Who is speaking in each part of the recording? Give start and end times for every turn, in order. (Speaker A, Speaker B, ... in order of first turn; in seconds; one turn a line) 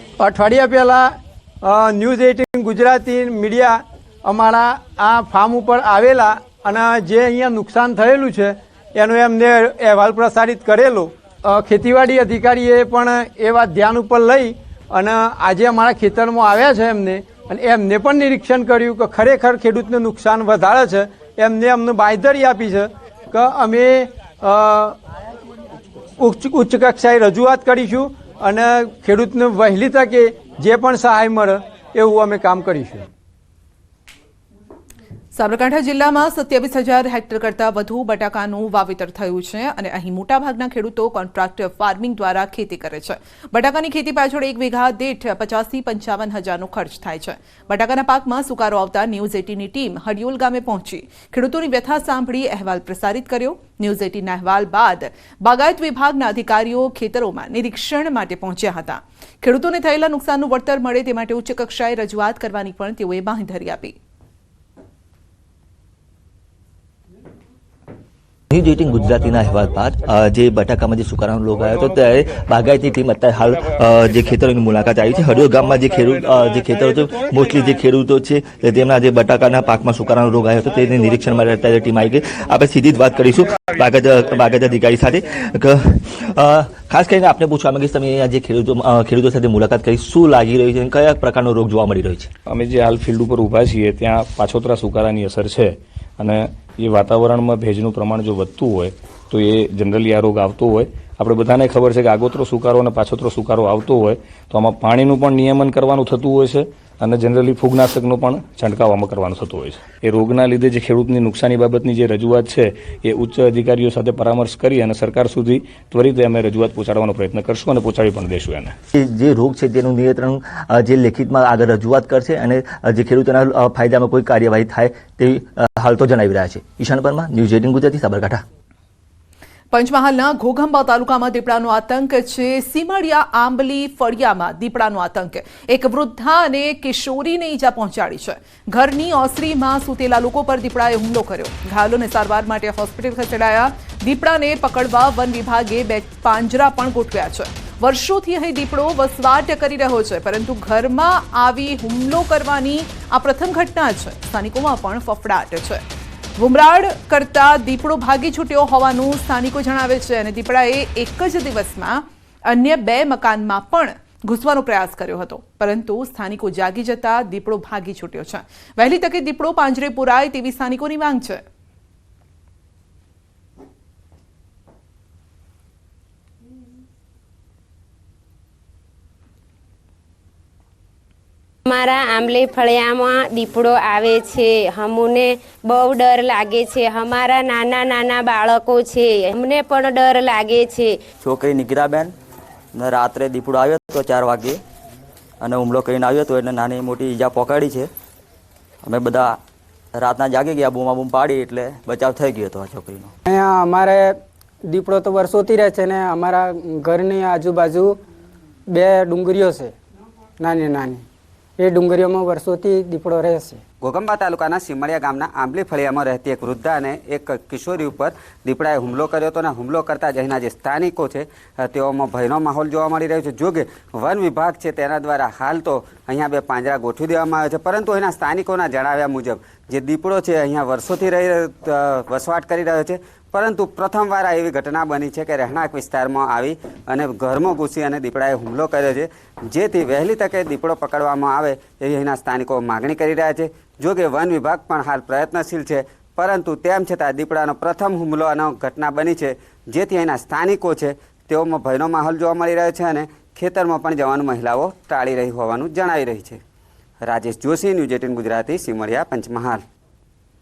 Speaker A: 0.2-1.1
Speaker A: 1.6-24.9
Speaker A: 26.2-33.0
Speaker B: 35.3-64.0
Speaker C: 68.5-92.3
Speaker D: 92.5-118.7
Speaker C: 118.9-128.4
Speaker B: 129.7-155.8
Speaker B: 156.4-171.4
Speaker E: 181.7-191.1
Speaker F: 191.2-192.1
Speaker F: 192.7-194.6
Speaker F: 195.4-197.9
Speaker F: 198.8-199.4
Speaker F: 199.9-203.1
Speaker G: 203.2-208.0
Speaker G: 208.7-209.7
Speaker G: 210.4-211.0
Speaker G: 211.6-213.6
Speaker H: 213.8-256.4
Speaker H: 257.0-259.6